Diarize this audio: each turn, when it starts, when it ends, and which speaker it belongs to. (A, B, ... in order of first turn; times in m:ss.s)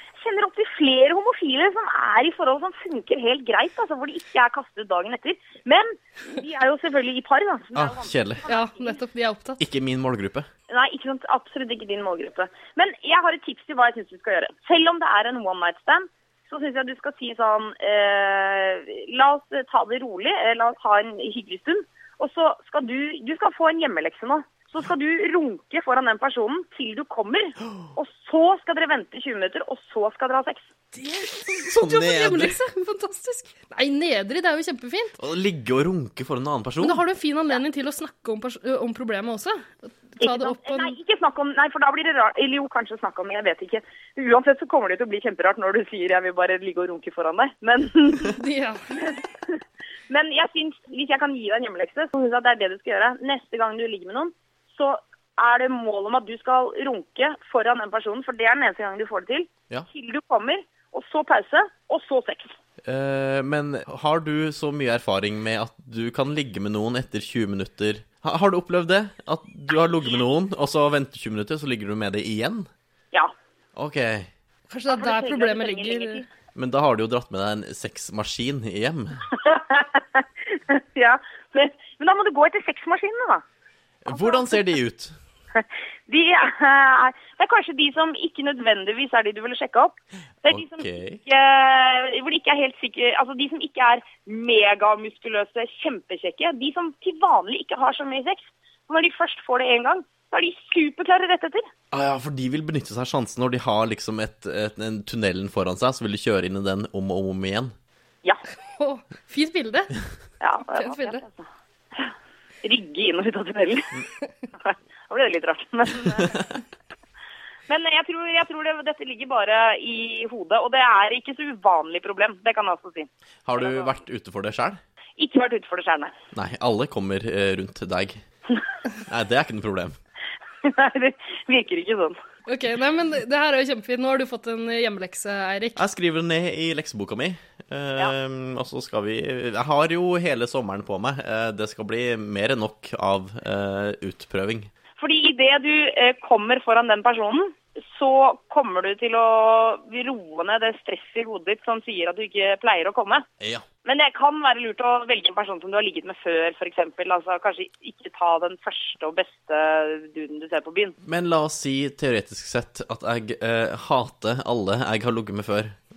0:00.2-0:09.0 A
0:07.7-0:08.4 B
0:08.5-0:09.6 C
0:09.6-0:10.5 B
0:10.7-0:30.7 A
0:31.0-0:35.1 C
0:31.5-0:32.6 B
0:35.2-0:37.0 B
0:36.8-0:41.0 C
0:40.2-0:48.4 A
0:48.3-0:48.8 C
0:50.1-1:02.6 A
1:02.8-1:12.7 B
1:13.8-1:14.3 B
1:14.7-1:16.2 C
1:14.9-1:16.2 A
1:16.5-1:19.2 B
1:19.4-1:23.4 A
1:24.0-1:25.1 B
1:24.1-1:24.6 A
1:25.6-1:41.7 A
1:30.5-1:31.2 B
1:41.9-1:47.7 B
1:48.7-1:49.9 C
1:50.4-1:53.9 A
1:50.7-1:51.2 C
1:54.6-1:56.5 A
1:57.7-2:03.9 A
2:03.4-2:04.8 B
2:05.2-2:06.1 A
2:06.3-2:08.2 B
2:09.1-2:10.0 B
2:10.6-2:12.2 A
2:12.5-2:15.8 C
2:15.8-2:24.7 B
2:25.0-2:33.2 A
2:33.4-2:33.6 B
2:33.8-2:40.9 A
2:41.0-2:45.8 B